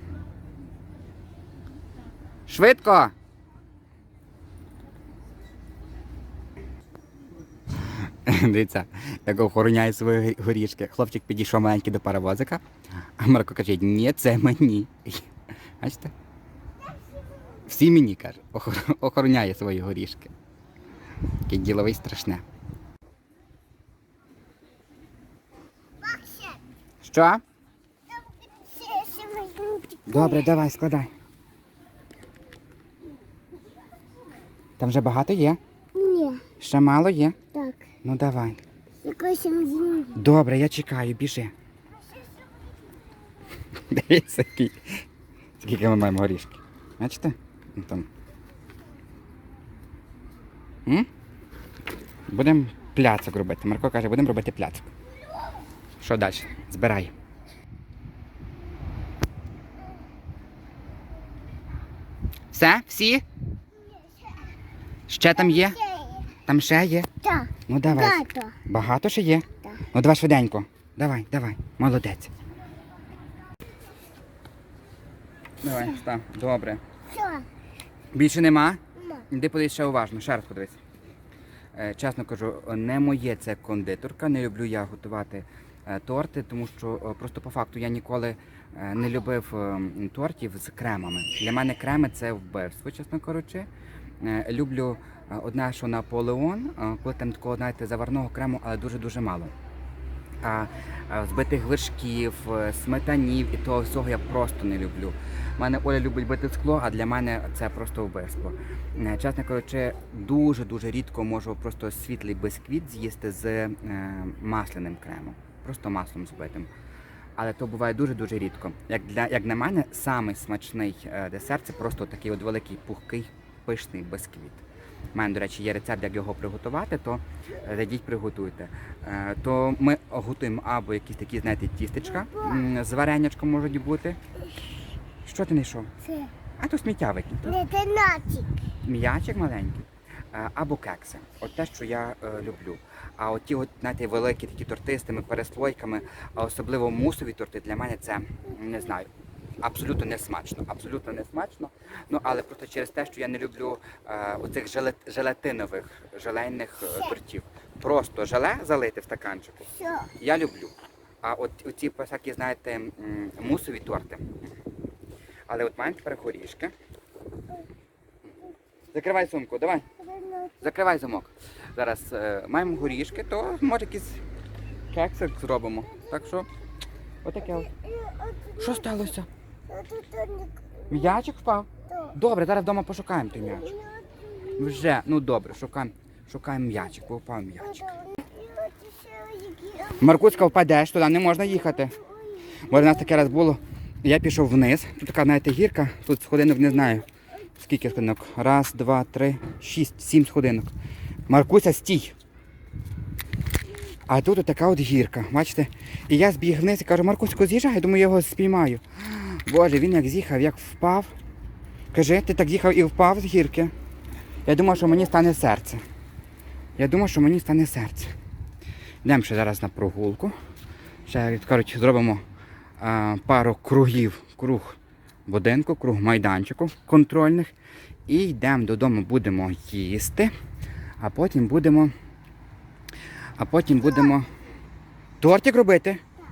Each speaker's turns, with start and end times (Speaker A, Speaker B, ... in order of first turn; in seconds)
Speaker A: 2.5-3.1, 8.0-12.6, 13.2-15.3, 15.8-16.1, 17.7-20.3, 21.5-22.4, 27.0-27.4, 30.1-31.1, 34.8-35.6, 36.6-37.4, 38.0-38.6, 40.1-41.5, 43.8-45.0, 45.6-48.1, 52.3-54.9, 56.0-57.1, 62.5-63.2, 65.1-65.8, 66.5-67.1, 67.7-72.3, 75.6-76.8, 78.1-80.8, 81.7-93.7, 94.2-99.5, 100.4-116.7, 117.4-124.6, 125.1-134.2, 135.2-135.9, 136.6-137.6, 138.8-149.1, 149.6-164.4, 165.5-166.7, 168.9-169.9, 170.6-174.2, 174.9-176.5, 177.2-177.7, 178.6-179.3, 180.9-183.8, 184.6-188.0, 190.0-192.0, 192.6-197.1, 197.6-200.7, 201.3-202.2, 204.1-211.1, 211.9-213.7, 214.5-215.8, 216.8-218.2, 219.0-220.3, 221.1-222.2, 222.8-227.5, 228.1-230.3, 231.0-231.9, 233.4-234.3, 235.2-236.0
Speaker B: 26.0-26.6, 28.4-30.5, 36.0-36.4, 37.5-37.9, 39.0-40.2, 66.0-66.2, 67.2-68.6, 77.1-77.5, 136.1-136.3, 137.5-138.5, 159.8-160.1, 170.0-170.6, 177.7-178.9, 179.7-180.9, 183.6-184.7, 187.9-190.2, 192.0-192.8